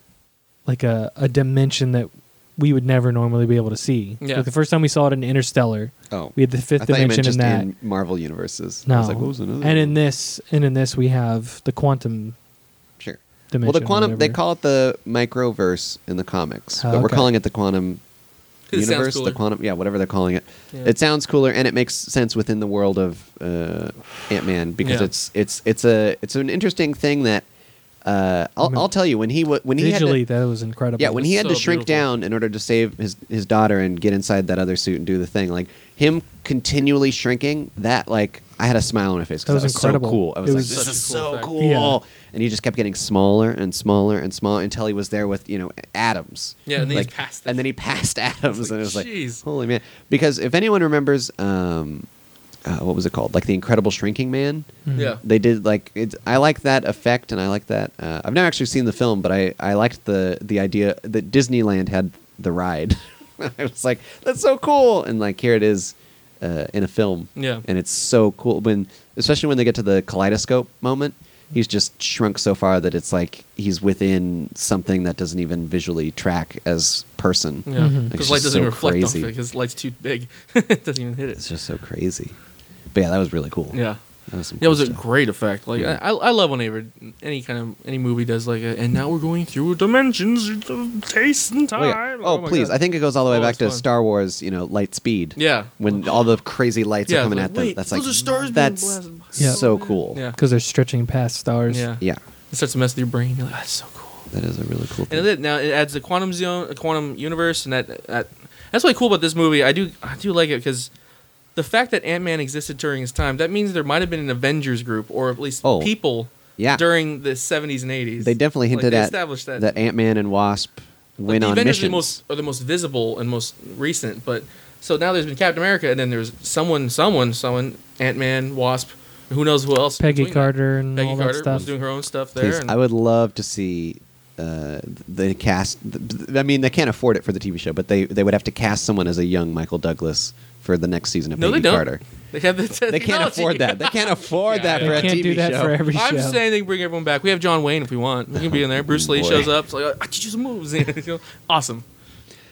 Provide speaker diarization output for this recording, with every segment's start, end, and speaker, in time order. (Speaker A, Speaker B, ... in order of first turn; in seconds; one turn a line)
Speaker A: 0.7-7.7
Speaker B: 4.2-4.5
Speaker C: 6.1-10.0
Speaker A: 8.9-12.3
Speaker C: 13.0-18.0
Speaker A: 13.5-14.4
Speaker A: 16.8-17.3
Speaker B: 18.7-19.4
Speaker C: 18.7-27.4
Speaker B: 24.8-25.1
Speaker C: 28.1-30.2
Speaker A: 29.8-31.3
Speaker C: 31.0-52.1
Speaker B: 31.2-32.0
Speaker A: 39.5-41.0
Speaker B: 40.5-41.6
Speaker A: 41.6-42.0
Speaker B: 46.7-47.7
Speaker B: 48.5-49.4
Speaker C: 52.6-79.3
Speaker A: 54.9-55.2
Speaker B: 54.9-55.2
Speaker B: 67.4-67.6
Speaker B: 77.7-81.4
Speaker A: 77.8-78.1
Speaker C: 81.4-82.3
Speaker C: 82.9-83.8
Speaker B: 83.7-84.0
Speaker C: 84.3-85.0
Speaker B: 84.6-93.8
Speaker C: 91.8-100.2
Speaker B: 95.4-96.4
Speaker B: 97.1-100.4
Speaker A: 100.3-101.9
Speaker B: 101.7-104.3
Speaker C: 104.3-105.3
Speaker B: 105.1-110.9
Speaker B: 111.6-119.7
Speaker C: 115.6-115.9
Speaker C: 116.6-116.8
Speaker C: 118.2-122.2
Speaker B: 121.3-132.7
Speaker A: 130.0-131.7
Speaker C: 132.4-142.0
Speaker B: 141.4-145.2
Speaker C: 142.9-145.8
Speaker A: 144.8-146.4
Speaker B: 145.9-151.8
Speaker C: 148.4-149.5